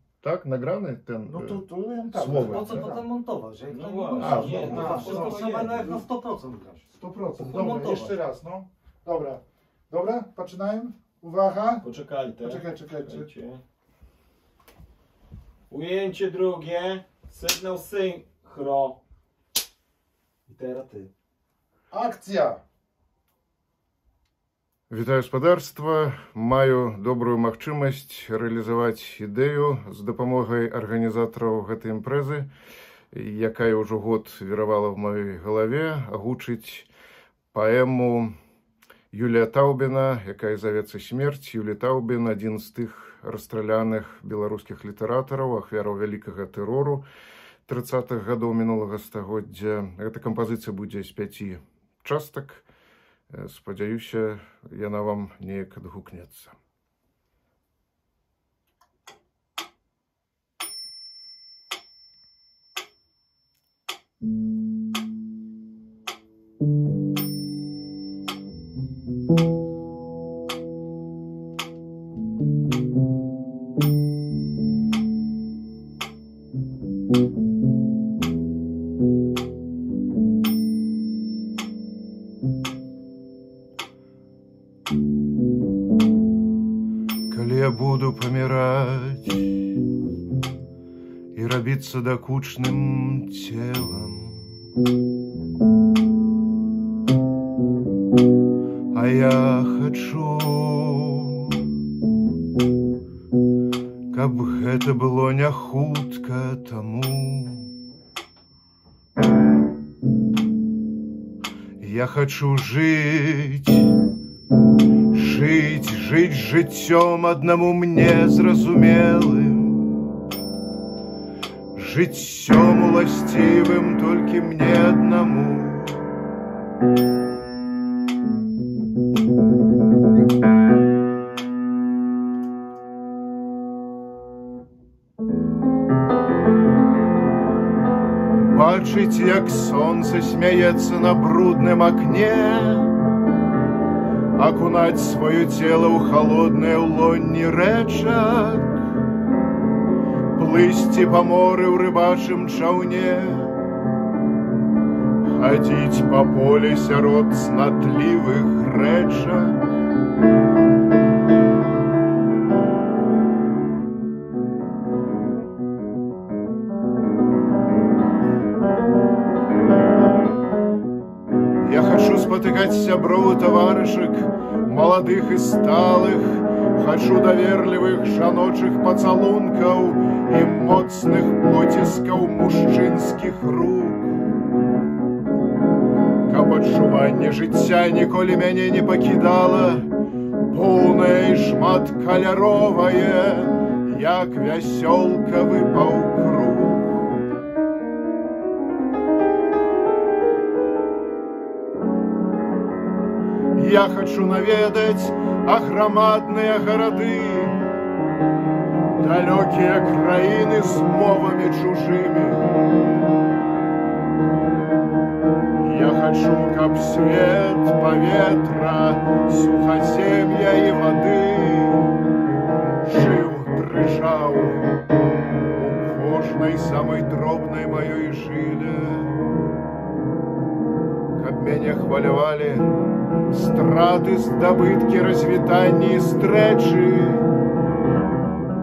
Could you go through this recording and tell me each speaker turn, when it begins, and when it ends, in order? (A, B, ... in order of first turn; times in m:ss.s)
0:00.2-0:02.9 A
0:01.3-0:03.0 B
0:02.4-0:08.2 C
0:03.7-0:06.0 D
0:04.2-0:05.0 A
0:04.3-0:05.7 B
0:07.0-0:11.8 B
0:11.8-0:13.6 D
0:12.4-0:13.3 B
0:15.7-0:19.0 D
0:20.5-0:21.1 D
0:21.9-0:22.6 B
0:24.9-0:32.5 A
0:33.1-0:36.9 A
0:37.5-0:38.4 A
0:39.1-0:47.0 A
0:47.6-0:52.6 A
0:53.3-0:56.6 A
1:27.3-1:29.7 A
1:31.3-1:34.6 A
1:38.9-1:41.7 A
1:44.1-1:47.7 A
1:51.8-1:54.0 A
1:55.1-2:00.3 A
2:01.7-2:06.1 A
2:18.3-2:22.9 A
2:24.3-2:28.8 A
2:30.3-2:33.6 A
2:35.2-2:39.6 A
2:51.6-3:04.0 A
3:06.2-3:09.9 A
3:10.5-3:17.2 A
3:23.5-3:27.6 A
3:29.0-3:32.5 A
3:35.6-3:42.0 A
3:42.8-3:44.7 A
3:45.6-3:49.2 A
3:51.1-3:52.7 A
3:53.3-3:57.3 A